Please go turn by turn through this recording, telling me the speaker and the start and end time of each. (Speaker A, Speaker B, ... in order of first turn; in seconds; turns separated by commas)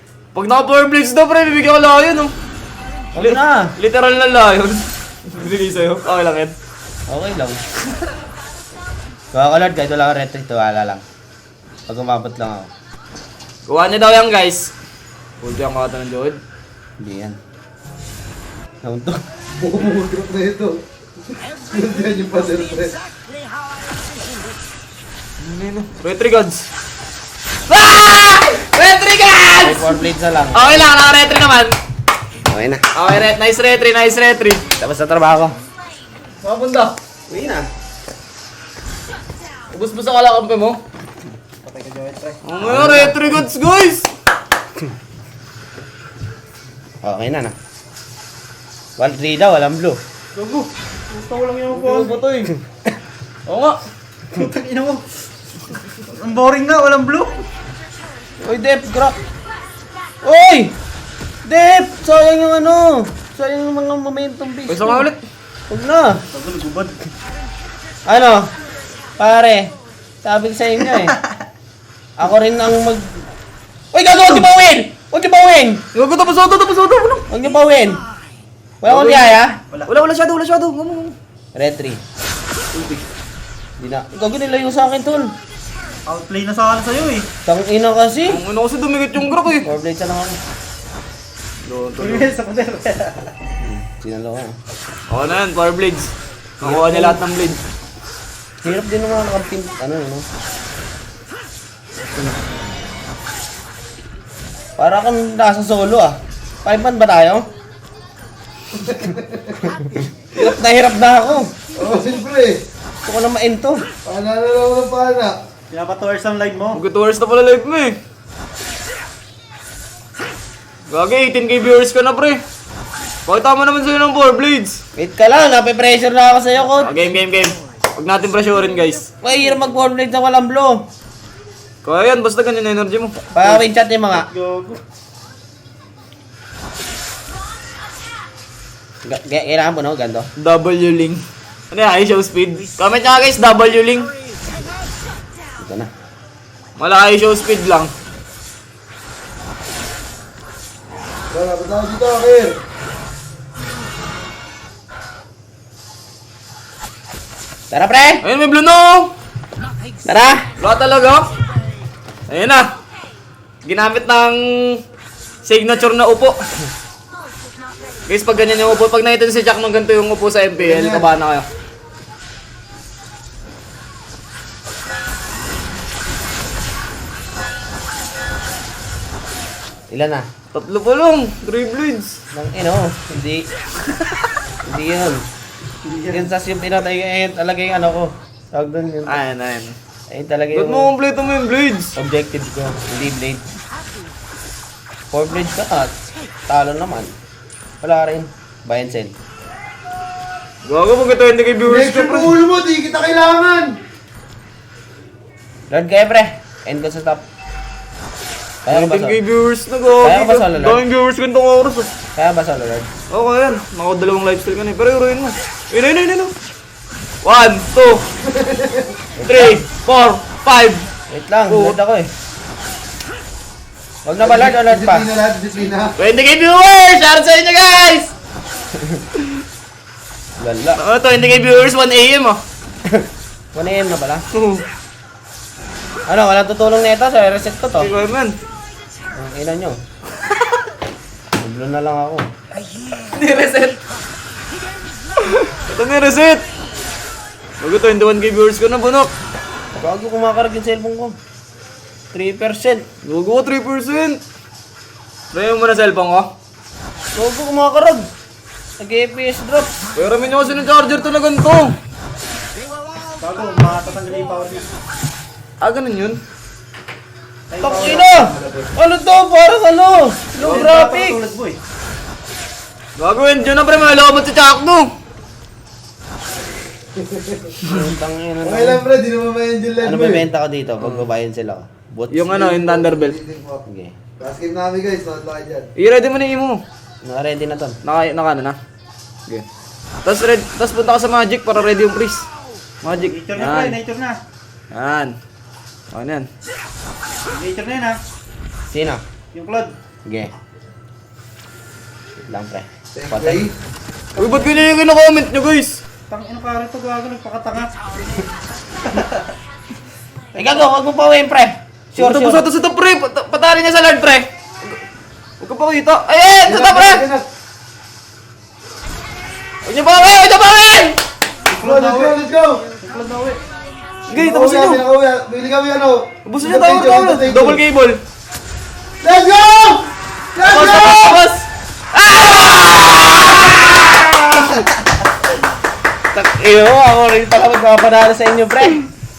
Speaker A: 0.3-2.3, Speaker B: 3.1-3.7, Speaker A: 3.2-6.5, Speaker B: 7.1-7.6, Speaker B: 9.3-11.0, Speaker B: 11.9-12.7, Speaker A: 13.7-14.7, Speaker A: 15.4-16.4, Speaker B: 17.0-17.4, Speaker B: 18.8-19.2, Speaker C: 19.6-23.0, Speaker A: 25.4-26.7, Speaker A: 27.7-30.0, Speaker B: 29.6-30.9, Speaker A: 30.5-31.8, Speaker B: 32.5-32.8, Speaker A: 32.9-34.6, Speaker B: 34.8-35.6, Speaker A: 36.4-37.0, Speaker B: 37.3-37.7, Speaker A: 39.7-40.8, Speaker D: 41.6-42.4, Speaker A: 42.4-44.1, Speaker B: 42.6-43.3, Speaker B: 47.0-47.5, Speaker B: 49.0-50.0, Speaker D: 50.4-52.2, Speaker A: 51.7-52.5, Speaker A: 53.5-53.8, Speaker D: 54.3-55.0, Speaker D: 56.1-57.4, Speaker B: 58.4-59.2, Speaker B: 60.2-60.7, Speaker B: 61.5-65.1, Speaker A: 64.7-65.2, Speaker B: 65.7-66.2, Speaker D: 66.3-67.0, Speaker B: 68.1-68.5, Speaker B: 69.2-69.7, Speaker B: 70.2-71.1, Speaker B: 72.2-73.3, Speaker B: 73.9-75.8, Speaker A: 75.9-77.3, Speaker B: 77.3-78.0, Speaker B: 78.8-79.6, Speaker A: 78.8-81.2, Speaker B: 81.5-82.0, Speaker A: 82.7-83.1, Speaker B: 83.8-85.3, Speaker D: 86.1-87.3, Speaker B: 87.4-88.4, Speaker A: 88.3-89.7, Speaker B: 89.6-90.4, Speaker A: 91.6-92.3, Speaker D: 92.0-93.3, Speaker B: 93.6-94.6, Speaker A: 95.1-97.6, Speaker B: 96.6-97.2, Speaker B: 98.6-100.2, Speaker B: 104.8-107.4, Speaker C: 108.7-109.7, Speaker B: 110.0-111.5, Speaker C: 111.8-112.6, Speaker B: 113.0-113.8, Speaker C: 114.0-115.4, Speaker D: 115.7-116.8, Speaker A: 116.7-118.0, Speaker A: 120.9-122.4, Speaker A: 123.3-124.8, Speaker B: 125.0-127.0, Speaker A: 126.8-129.1, Speaker B: 129.2-130.8, Speaker A: 131.8-133.3, Speaker B: 133.3-134.3, Speaker D: 134.1-134.8, Speaker B: 139.0-140.3, Speaker A: 140.4-141.2, Speaker A: 141.7-144.1, Speaker B: 145.6-145.9, Speaker A: 146.8-147.9, Speaker C: 151.3-152.5, Speaker B: 157.7-158.2, Speaker A: 158.2-159.1, Speaker B: 160.1-160.4, Speaker A: 160.6-161.3, Speaker A: 162.3-162.7, Speaker A: 163.6-164.8, Speaker A: 165.4-166.4, Speaker A: 168.1-171.4, Speaker C: 170.6-171.1, Speaker B: 179.9-180.2, Speaker A: 180.5-182.2, Speaker B: 182.3-183.4, Speaker B: 184.6-185.2, Speaker D: 185.8-186.3, Speaker B: 186.1-189.2, Speaker A: 189.1-189.8, Speaker B: 190.1-190.9, Speaker A: 190.5-192.0, Speaker B: 192.0-193.4, Speaker B: 195.1-195.9, Speaker B: 196.5-197.1, Speaker B: 197.8-199.1, Speaker A: 200.7-202.4, Speaker C: 201.6-203.7, Speaker B: 205.7-207.2, Speaker B: 208.6-209.2, Speaker A: 208.7-211.9, Speaker B: 210.0-210.8, Speaker B: 212.2-212.9, Speaker A: 213.1-216.3, Speaker A: 217.2-218.1, Speaker C: 218.2-218.9, Speaker B: 219.2-219.6, Speaker A: 219.3-220.9, Speaker B: 221.1-222.1, Speaker A: 221.5-221.8, Speaker B: 224.1-225.1, Speaker C: 224.2-225.9, Speaker A: 226.0-228.1, Speaker B: 228.7-229.0, Speaker B: 230.4-230.8, Speaker A: 230.8-232.4, Speaker B: 232.9-234.2, Speaker A: 234.3-234.6, Speaker B: 236.1-237.9, Speaker A: 237.8-238.4, Speaker B: 239.2-239.8, Speaker B: 241.4-242.3, Speaker A: 242.9-243.8, Speaker A: 245.2-246.4, Speaker A: 247.6-249.1, Speaker B: 249.8-251.2, Speaker B: 252.1-252.8, Speaker A: 253.0-254.2, Speaker A: 255.3-256.3, Speaker B: 257.1-258.1, Speaker B: 258.8-259.7, Speaker A: 259.9-261.7, Speaker D: 263.2-264.7, Speaker A: 265.6-266.2, Speaker D: 267.5-268.1, Speaker B: 267.6-271.2, Speaker C: 267.8-268.7, Speaker D: 270.4-271.6, Speaker A: 273.0-274.9, Speaker C: 276.9-277.6, Speaker B: 277.7-278.8, Speaker C: 278.4-280.2, Speaker B: 279.8-282.4, Speaker A: 282.1-283.2, Speaker C: 282.3-283.6, Speaker B: 283.6-283.9, Speaker C: 284.2-285.7, Speaker A: 285.8-286.6, Speaker B: 287.0-287.8, Speaker A: 287.8-288.6, Speaker A: 290.1-292.3, Speaker A: 292.8-293.8, Speaker D: 292.9-294.2, Speaker A: 294.7-295.1, Speaker A: 295.9-296.3, Speaker D: 297.3-298.0, Speaker B: 298.7-299.0, Speaker D: 299.3-299.7, Speaker B: 300.1-300.3, Speaker B: 302.3-303.4, Speaker C: 302.9-303.5, Speaker D: 304.2-304.5, Speaker A: 304.2-305.8, Speaker D: 306.1-307.7, Speaker D: 308.9-309.2, Speaker B: 310.4-312.4, Speaker A: 311.9-314.8, Speaker A: 315.4-317.1, Speaker C: 316.4-317.2, Speaker A: 319.6-321.0, Speaker C: 321.5-322.6, Speaker D: 321.5-323.4, Speaker A: 324.1-324.8, Speaker C: 324.1-327.6, Speaker A: 326.2-328.0, Speaker C: 329.0-331.2, Speaker A: 330.4-334.6, Speaker B: 336.1-338.9